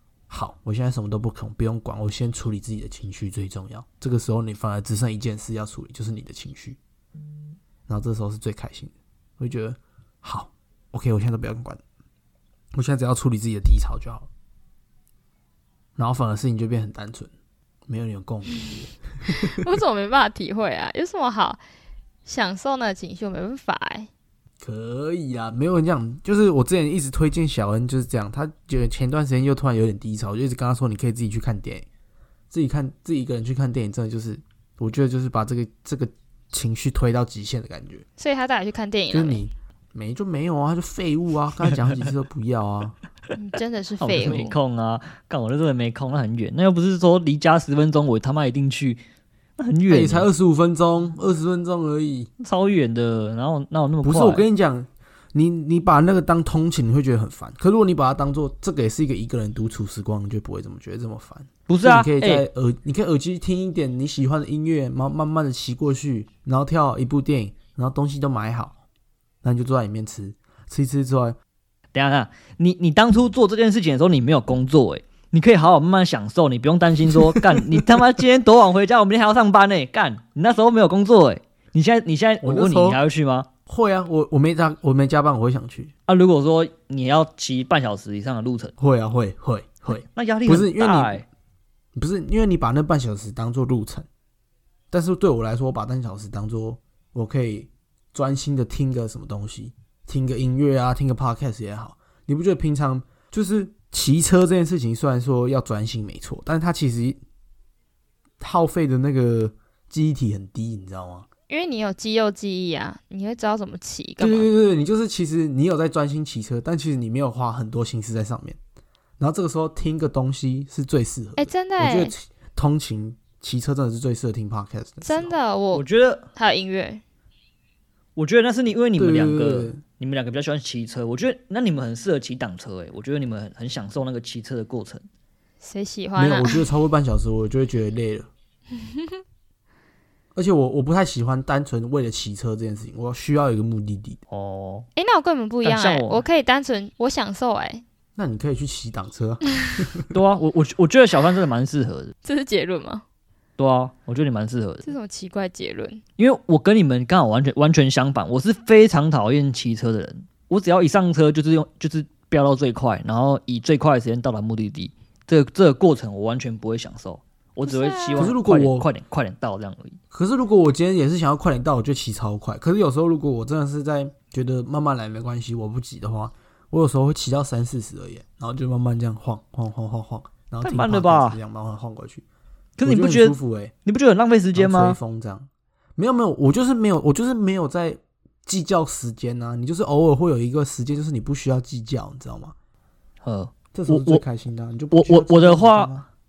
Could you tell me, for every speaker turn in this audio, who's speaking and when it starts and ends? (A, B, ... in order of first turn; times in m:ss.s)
0:00.3-0:06.8 A
0:07.9-0:11.8 A
0:12.7-0:14.3 A
0:16.0-0:17.3 A
0:17.9-0:19.8 A
0:18.5-0:21.6 B
0:22.2-0:24.1 B
0:24.6-0:31.8 A
0:32.5-0:38.0 A
0:38.2-0:39.4 B
0:39.1-0:43.0 A
0:43.3-0:44.6 B
0:44.0-0:49.0 C
0:49.6-0:50.3 C
0:49.9-0:52.3 A
0:52.4-0:54.4 C
0:54.0-1:08.8 A
1:01.7-1:02.5 C
1:09.4-1:11.4 A
1:11.9-1:23.5 C
1:17.1-1:17.6 A
1:22.4-1:23.0 A
1:23.6-1:25.9 A
1:26.1-1:28.7 C
1:28.8-1:31.2 A
1:30.0-1:31.2 C
1:31.9-1:34.1 A
1:34.9-1:47.2 A
1:48.4-1:51.3 A
1:51.5-1:54.5 B
1:54.2-1:58.6 A
1:59.2-2:05.4 A
2:01.4-2:02.1 B
2:05.0-2:05.8 B
2:05.7-2:06.2 C
2:06.4-2:07.0 B
2:08.2-2:15.0 C
2:09.0-2:09.8 A
2:15.6-2:16.6 B
2:16.2-2:18.3 A
2:20.3-2:24.2 A
2:24.3-2:24.9 C
2:25.0-2:27.8 B
2:25.6-2:26.2 C
2:28.2-2:30.1 A
2:30.1-2:32.1 C
2:32.2-2:33.0 B
2:33.6-2:34.9 C
2:34.8-2:36.0 B
2:36.2-2:50.0 C
2:47.6-2:48.4 B
2:48.2-2:48.9 A
2:50.1-3:02.2 A
3:00.6-3:01.4 C
3:02.8-3:05.0 C
3:02.8-3:03.7 A
3:04.5-3:12.5 A
3:13.2-3:14.2 C
3:13.7-3:16.1 A
3:14.9-3:15.9 C